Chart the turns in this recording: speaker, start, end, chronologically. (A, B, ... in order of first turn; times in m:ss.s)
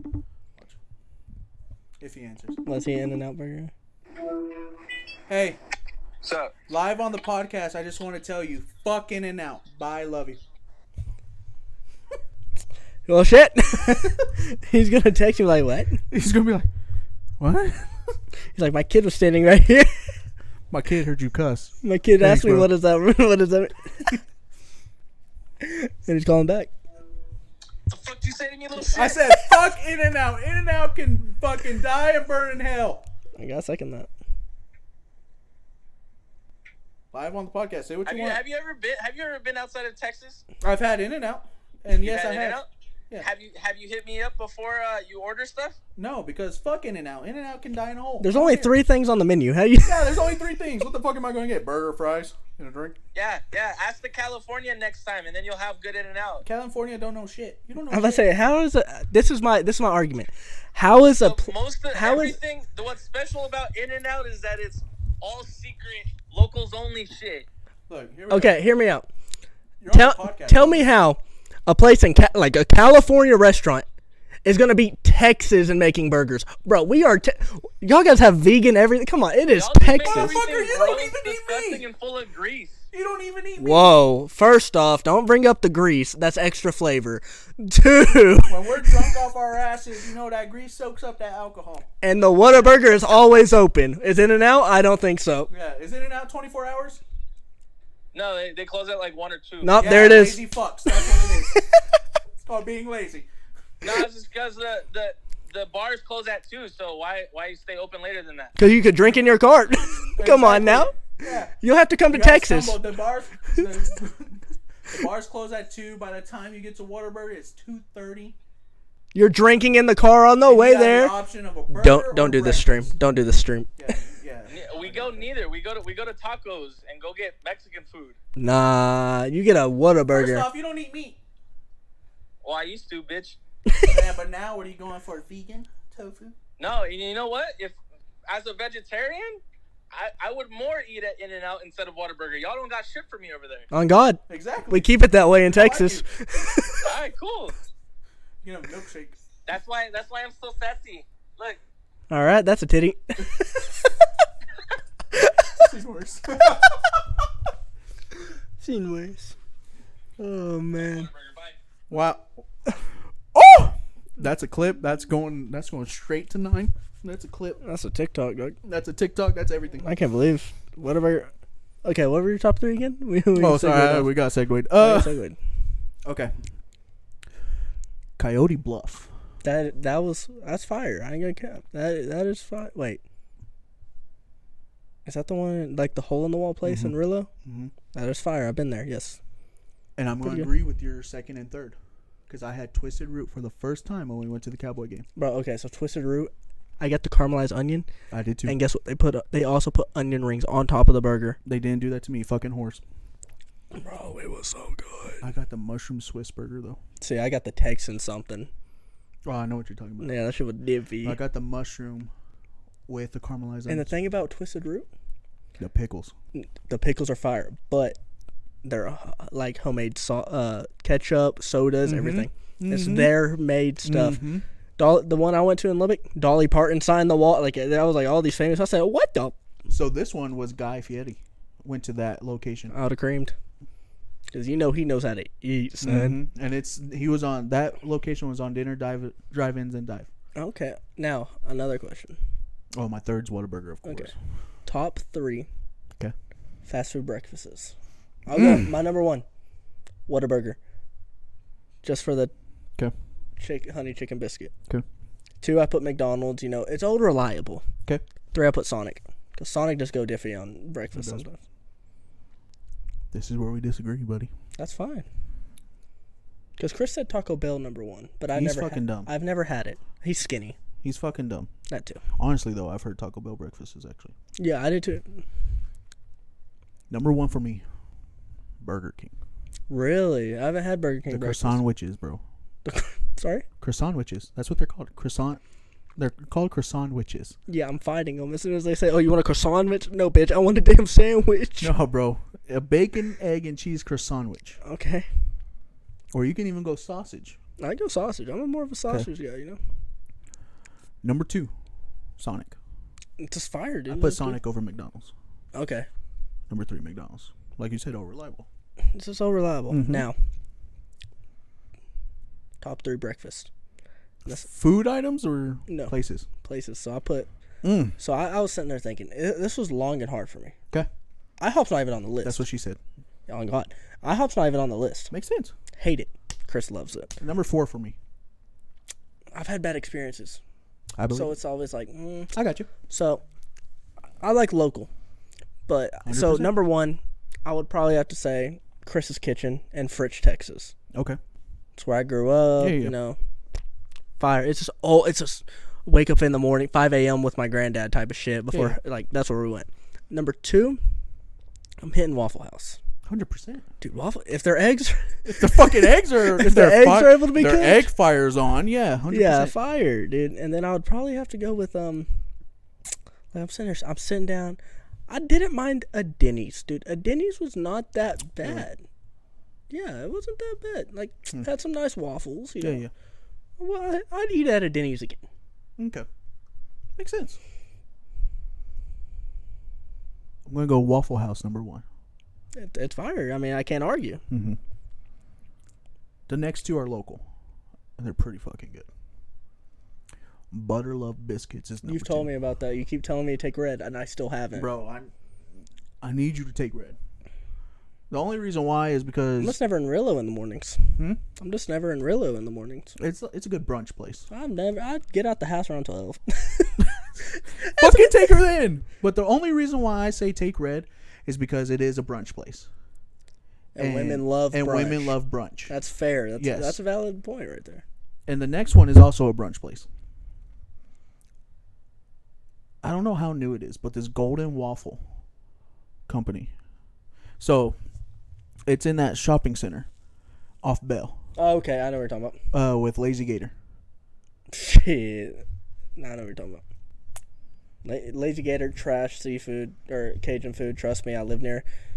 0:02.0-0:02.6 A
0:02.6-0:03.7 B
0:05.3-0:05.6 A
0:06.2-0:06.5 C
0:06.7-0:10.4 A
0:13.0-0:16.0 B
0:16.1-0:16.7 A
0:17.4-0:18.1 A
0:18.5-0:20.1 B
0:20.7-0:22.7 A
0:21.8-0:24.2 B
0:25.6-0:26.7 B
0:27.9-0:29.3 C
0:28.9-0:33.0 A
0:33.4-0:34.1 B
0:37.1-0:38.4 A
0:38.0-0:40.4 C
0:40.6-0:42.6 A
0:42.0-0:42.7 C
0:43.2-0:45.8 C
0:46.0-0:48.7 A
0:48.2-0:50.0 B
0:49.8-0:53.0 A
0:53.1-0:56.4 C
0:56.4-0:58.3 A
0:57.9-1:02.4 B
1:01.2-1:07.4 C
1:07.9-1:08.6 A
1:08.3-1:09.1 B
1:09.8-1:10.8 A
1:09.9-1:13.8 B
1:14.4-1:20.4 B
1:19.5-1:22.8 C
1:20.0-1:21.8 A
1:22.9-1:23.9 A
1:23.6-1:29.1 B
1:28.4-1:31.9 A
1:32.0-1:35.5 B
1:35.5-1:37.0 A
1:38.1-1:39.9 C
1:39.6-1:41.8 B
1:39.8-1:41.6 A
1:42.4-1:43.3 A
1:43.8-1:48.5 C
1:48.6-1:51.0 B
1:50.2-1:51.5 A
1:51.5-1:52.8 B
1:52.1-1:58.3 A
1:59.1-2:01.2 B
2:00.4-2:02.8 A
2:01.7-2:03.7 B
2:03.8-2:05.3 A
2:04.5-2:08.2 C
2:08.4-2:10.5 B
2:10.1-2:11.2 A
2:12.4-2:13.4 C
2:13.7-2:14.0 B
2:13.8-2:16.3 A
2:16.6-2:23.7 C
2:23.7-2:26.9 B
2:24.3-2:24.9 A
2:25.4-2:26.0 A
2:26.8-2:27.5 C
2:28.4-2:29.2 A
2:29.4-2:31.6 C
2:32.1-2:33.9 B
2:35.1-2:35.6 B
2:35.5-2:37.0 A
2:38.6-2:39.3 B
2:40.2-2:41.1 B
2:41.1-2:41.5 C
2:41.9-2:42.3 A
2:43.3-2:47.6 A
2:47.6-2:48.6 B
2:48.6-2:49.9 A
2:49.8-2:51.3 B
2:51.8-2:54.2 B
2:53.4-2:55.1 A
2:54.7-2:55.4 B
2:56.0-2:56.3 A
2:58.2-2:59.1 A
2:59.4-3:03.0 B
3:05.0-3:07.3 B
3:06.6-3:07.7 A
3:07.9-3:09.2 B
3:10.0-3:11.8 A
3:10.2-3:10.5 B
3:12.3-3:15.0 A
3:15.2-3:17.8 B
3:18.1-3:18.6 A
3:18.5-3:21.4 B
3:21.4-3:22.8 A
3:23.7-3:25.2 B
3:25.2-3:26.8 A
3:27.0-3:28.5 B
3:29.2-3:30.1 A
3:30.0-3:31.2 B
3:31.0-3:32.1 A
3:32.9-3:33.9 A
3:33.7-3:34.9 B
3:35.6-3:36.1 A
3:36.3-3:38.0 B
3:38.6-3:44.2 B
3:41.8-3:43.2 A
3:43.8-3:44.4 A
3:44.8-3:49.4 B
3:49.7-3:52.7 A
3:52.7-3:53.3 B
3:54.3-3:56.2 B
3:55.8-4:00.1 A
4:00.4-4:02.2 B
4:02.7-4:04.1 A
4:03.8-4:04.1 B
4:04.6-4:05.5 B
4:06.6-4:07.7 B
4:08.2-4:09.2 B
4:08.3-4:08.7 A
4:10.1-4:10.6 B
4:11.8-4:12.3 B
4:13.4-4:14.5 B
4:15.4-4:17.6 B
4:18.3-4:21.4 B
4:20.9-4:21.2 A
4:23.1-4:24.3 A
4:24.6-4:25.0 B
4:26.6-4:30.6 B
4:28.3-4:29.1 A
4:30.8-4:31.5 A
4:31.7-4:32.0 B
4:32.2-4:34.1 A
4:34.4-4:35.2 B
4:36.9-4:37.6 A
4:38.6-4:39.1 A
4:39.7-4:41.6 B
4:41.1-4:42.2 A
4:42.6-4:43.4 B
4:43.6-4:45.4 A
4:46.0-4:47.3 A
4:47.5-4:51.7 B
4:51.6-4:54.6 A
4:54.6-4:55.1 B
4:56.1-4:57.4 A
4:57.6-4:59.6 B
5:01.0-5:01.5 A
5:02.2-5:02.5 A
5:03.2-5:04.4 B
5:03.9-5:05.1 A
5:05.5-5:05.9 B
5:06.5-5:08.4 A
5:08.9-5:10.1 B
5:09.7-5:10.1 A
5:12.6-5:13.5 B
5:14.2-5:16.2 A
5:15.7-5:17.3 B
5:17.6-5:17.9 A
5:18.0-5:20.6 B
5:21.4-5:22.4 B
5:22.2-5:22.8 A
5:23.3-5:25.1 B
5:25.1-5:25.5 A
5:25.8-5:27.1 B
5:27.2-5:28.0 A
5:29.3-5:30.4 B
5:31.0-5:31.3 A
5:31.1-5:33.2 B
5:32.3-5:32.7 A
5:34.2-5:34.9 B
5:35.7-5:40.7 B
5:36.0-5:36.5 A
5:40.9-5:41.2 A
5:41.8-5:43.2 B
5:42.6-5:42.9 A
5:44.2-5:50.8 B
5:51.8-5:52.8 B
5:53.0-5:53.6 A
5:53.8-5:57.9 B
5:55.2-5:59.5 A
5:59.1-6:02.1 B
6:03.3-6:08.8 B
6:09.7-6:12.8 B
6:12.6-6:12.9 A
6:13.6-6:15.2 B
6:15.8-6:16.0 A
6:17.0-6:17.4 A
6:20.4-6:21.8 A
6:22.5-6:24.2 B
6:24.3-6:24.6 A
6:26.3-6:27.2 A
6:28.0-6:28.9 A
6:30.5-6:32.3 A
6:31.8-6:34.7 B
6:34.5-6:35.1 A
6:36.0-6:37.0 A
6:38.1-6:39.6 A
6:39.4-6:43.0 B
6:43.0-6:44.3 A
6:44.3-6:48.4 B
6:47.8-6:52.7 A
6:53.8-6:55.2 B
6:53.8-6:55.7 A
6:55.7-6:57.8 B
6:56.4-6:56.8 A
6:58.3-6:59.9 A
7:02.8-7:05.0 A
7:06.1-7:06.5 A
7:07.4-7:07.8 A
7:08.6-7:09.9 A
7:10.6-7:11.2 A
7:11.4-7:12.4 B
7:12.5-7:13.5 A
7:14.5-7:15.4 B
7:16.0-7:16.6 B
7:17.8-7:21.6 B